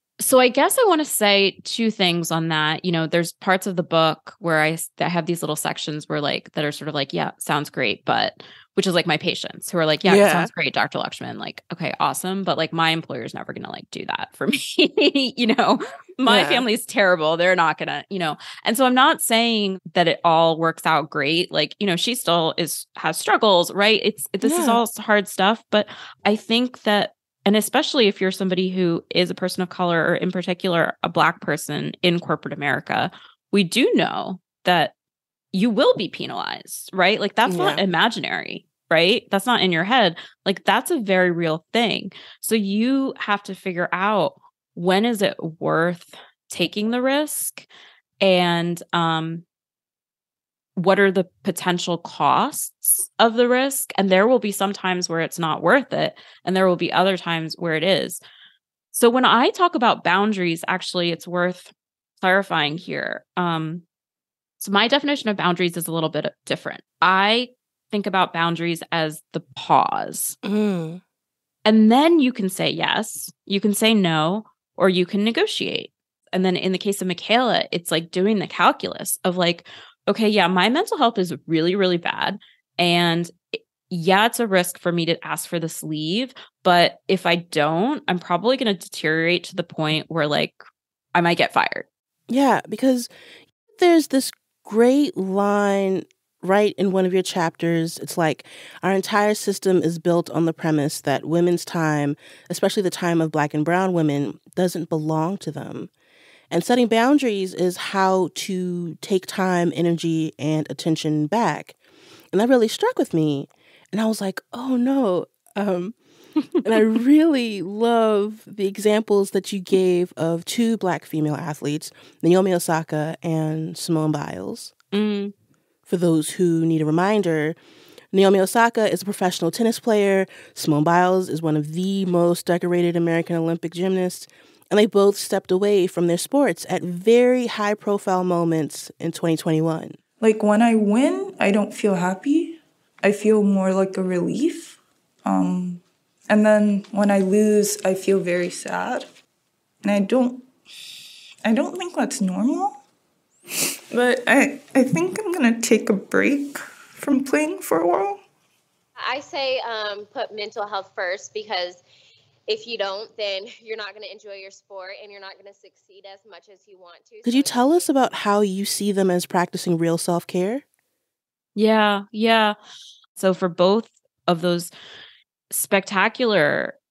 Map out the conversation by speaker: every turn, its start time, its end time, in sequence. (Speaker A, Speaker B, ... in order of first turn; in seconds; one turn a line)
Speaker A: 0.2-34.9
Speaker B: 10.0-10.5
Speaker B: 16.2-16.6
Speaker B: 24.4-24.8
Speaker A: 35.5-47.7
Speaker B: 37.5-37.8
Speaker A: 48.2-49.4
Speaker A: 50.8-58.2
Speaker A: 58.9-63.8
Speaker A: 64.6-70.4
Speaker B: 70.4-71.0
Speaker A: 71.6-91.9
Speaker B: 92.3-93.1
Speaker B: 93.7-105.9
Speaker B: 106.5-111.8
Speaker B: 112.3-116.0
Speaker B: 116.6-124.7
Speaker A: 124.9-125.3
Speaker B: 125.9-127.6
Speaker B: 128.1-140.0
Speaker C: 140.2-149.1
Speaker C: 149.8-150.5
Speaker C: 151.4-152.8
Speaker C: 153.9-158.2
Speaker D: 159.0-161.8
Speaker D: 162.5-167.9
Speaker B: 167.2-170.6
Speaker A: 171.6-172.6
Speaker A: 173.2-174.7
Speaker A: 175.5-176.8